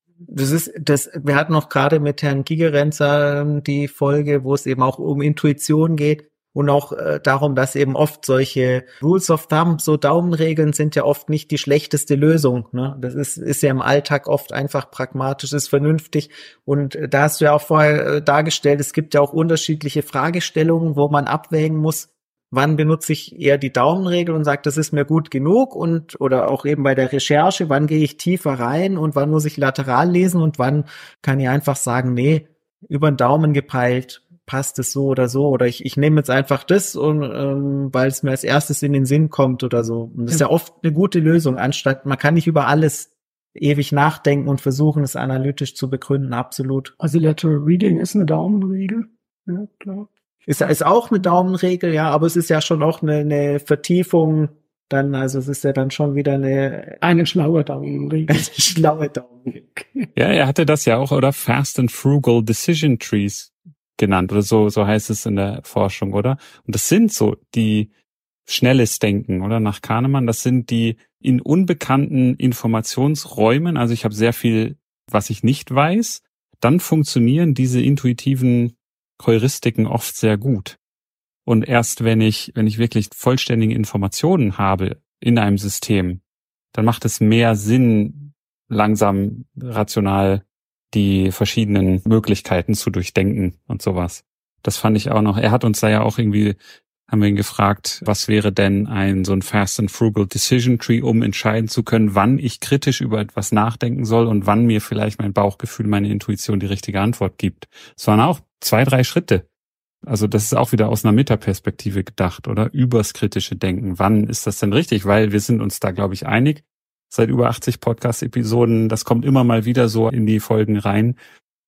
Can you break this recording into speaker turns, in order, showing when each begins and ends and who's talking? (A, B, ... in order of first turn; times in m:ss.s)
0:00.3-0:46.9 A
0:47.0-0:50.1 B
0:50.5-0:57.0 A
0:57.0-0:58.5 B
0:58.3-0:59.5 A
0:59.6-1:00.1 B
1:00.2-1:07.9 C
1:08.5-1:20.8 C
1:21.4-1:26.2 C
1:26.7-1:36.6 C
1:37.1-1:49.4 C
1:50.1-2:01.2 C